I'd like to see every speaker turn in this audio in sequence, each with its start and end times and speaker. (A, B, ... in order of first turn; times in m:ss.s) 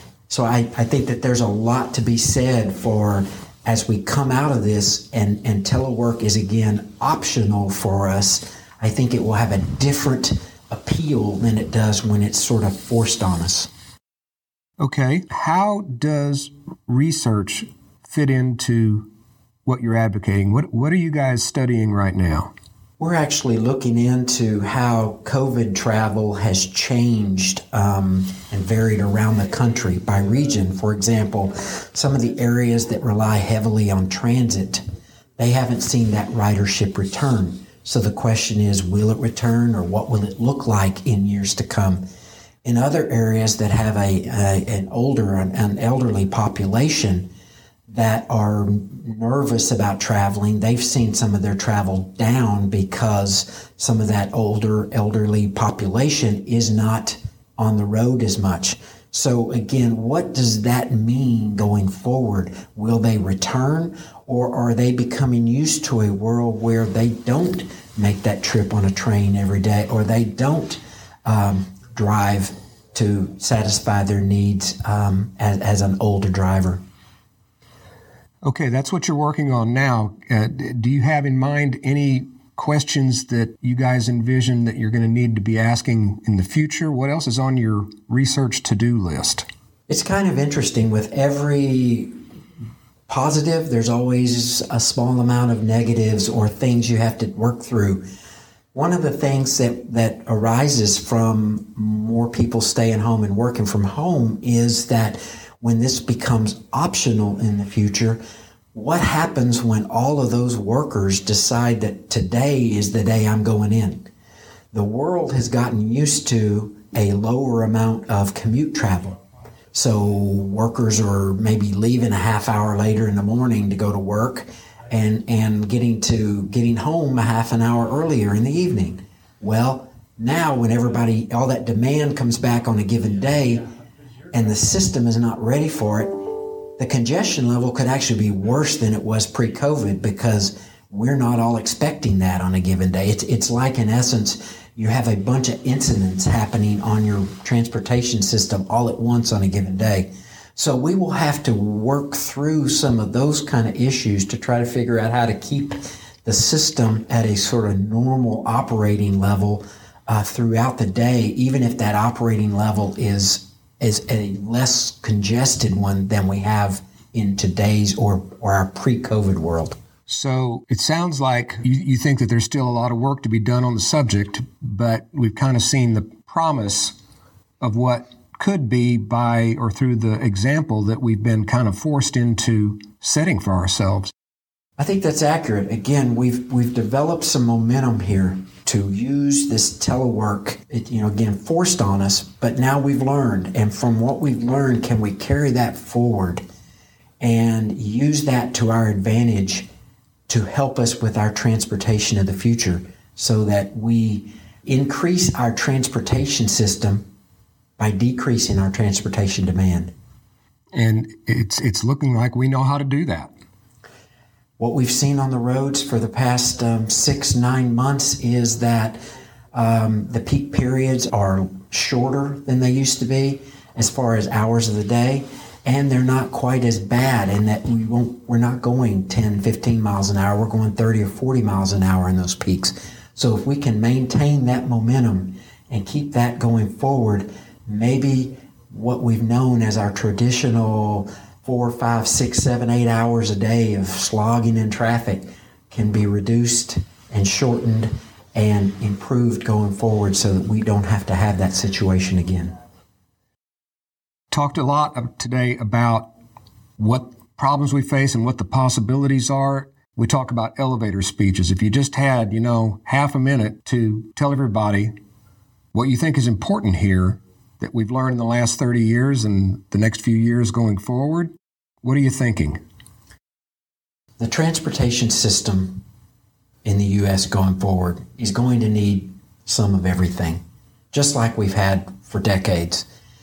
0:00.3-0:13.7 A
0:14.8-0:19.1 B
0:19.6-0:22.5 B
0:23.0-0:34.8 A
0:35.4-0:42.0 A
0:42.6-0:47.3 A
0:47.9-1:16.8 A
1:18.4-1:29.4 B
1:29.9-1:32.1 A
1:33.1-1:38.0 A
1:38.7-1:48.2 A
1:48.7-1:54.1 A
1:54.7-1:59.2 A
1:59.7-2:13.6 A
2:14.3-2:49.8 A
2:50.1-2:57.0 B
2:57.6-3:04.1 B
3:04.8-3:16.4 A
3:17.2-3:19.7 A
3:20.3-3:27.1 A
3:27.8-3:29.9 A
3:30.7-3:33.3 B
3:34.6-3:39.0 A
3:39.5-4:12.5 A
4:14.3-4:16.1 B
4:16.8-4:24.9 B
4:25.7-4:32.6 B
4:34.2-4:35.8 A
4:36.6-4:40.4 A
4:40.9-4:42.9 A